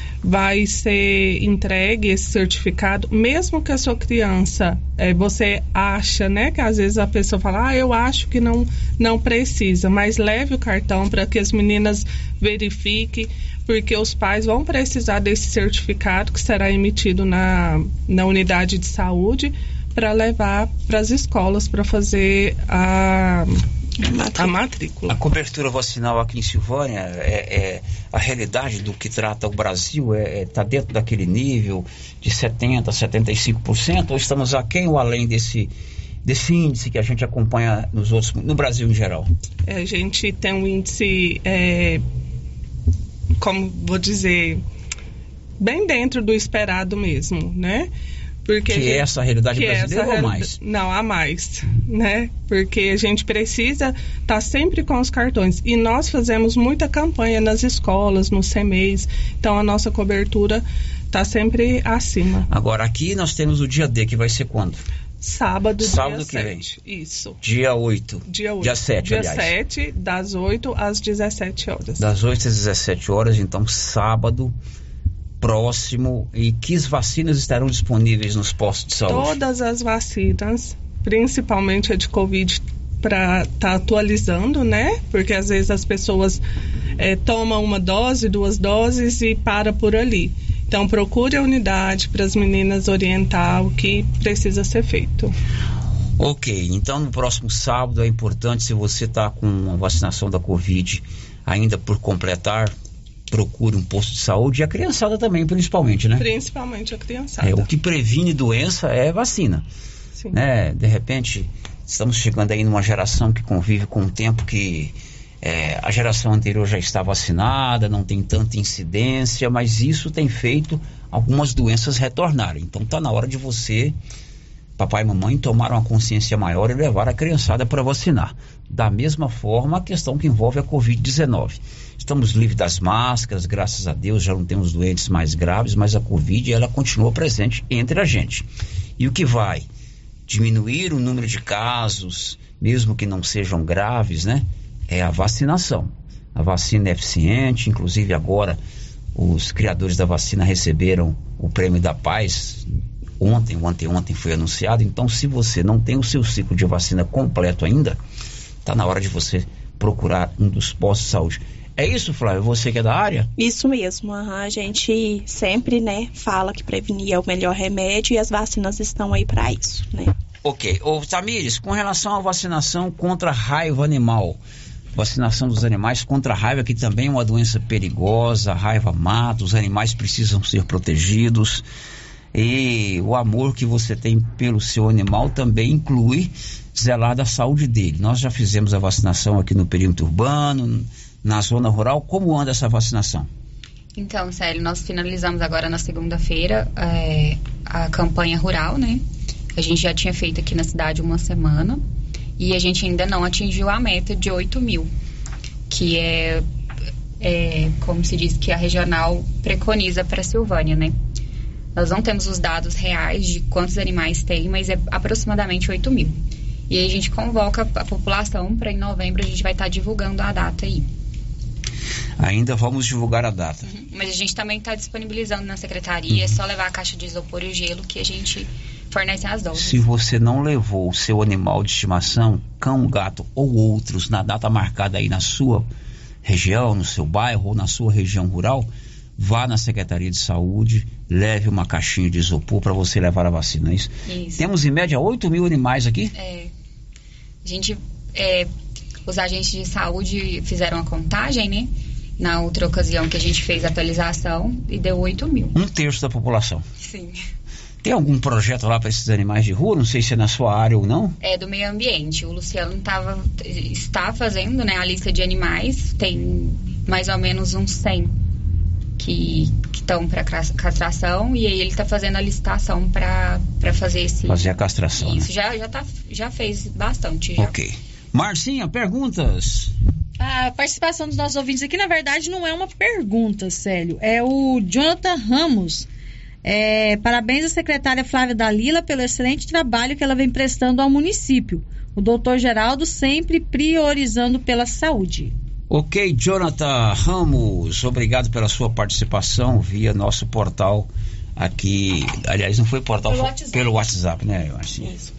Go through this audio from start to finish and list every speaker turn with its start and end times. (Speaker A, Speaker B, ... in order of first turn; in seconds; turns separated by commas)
Speaker A: 0.2-23.6, Speaker B: 24.1-24.5, Speaker A: 24.3-25.2, Speaker C: 25.1-35.7, Speaker C: 36.2-39.3, Speaker A: 39.7-42.0, Speaker A: 43.4-44.6, Speaker A: 45.6-47.9, Speaker A: 48.5-62.5, Speaker C: 48.7-50.5, Speaker C: 62.5-64.8, Speaker A: 65.2-67.4, Speaker C: 65.8-66.7, Speaker C: 67.4-69.5, Speaker A: 68.3-72.1, Speaker C: 72.0-74.5, Speaker C: 75.4-79.4, Speaker A: 79.1-86.4, Speaker A: 87.0-95.3, Speaker C: 96.2-102.8, Speaker C: 103.3-106.3, Speaker A: 106.2-107.7, Speaker C: 107.4-109.7, Speaker C: 110.3-124.0, Speaker C: 124.8-138.5, Speaker C: 139.0-139.7, Speaker C: 140.3-148.6, Speaker C: 149.2-158.0, Speaker C: 158.7-163.3, Speaker B: 163.4-170.1, Speaker C: 170.4-174.4, Speaker C: 174.9-181.7, Speaker C: 182.3-193.3, Speaker D: 193.9-199.0, Speaker D: 199.6-201.8, Speaker D: 202.4-204.9, Speaker D: 205.7-206.4, Speaker D: 207.2-210.9, Speaker D: 211.8-220.9, Speaker C: 222.2-223.7, Speaker D: 223.7-229.8, Speaker C: 229.6-235.7, Speaker C: 236.2-246.1, Speaker D: 244.1-244.5, Speaker D: 246.1-246.5, Speaker D: 247.4-248.5, Speaker D: 249.1-255.6, Speaker C: 255.5-256.6, Speaker D: 256.8-257.2, Speaker C: 257.8-261.2, Speaker D: 261.2-268.1, Speaker D: 269.0-277.6, Speaker C: 274.3-275.3, Speaker C: 277.4-279.8, Speaker E: 280.2-285.9, Speaker E: 286.4-295.3, Speaker C: 295.7-305.0, Speaker E: 303.1-303.4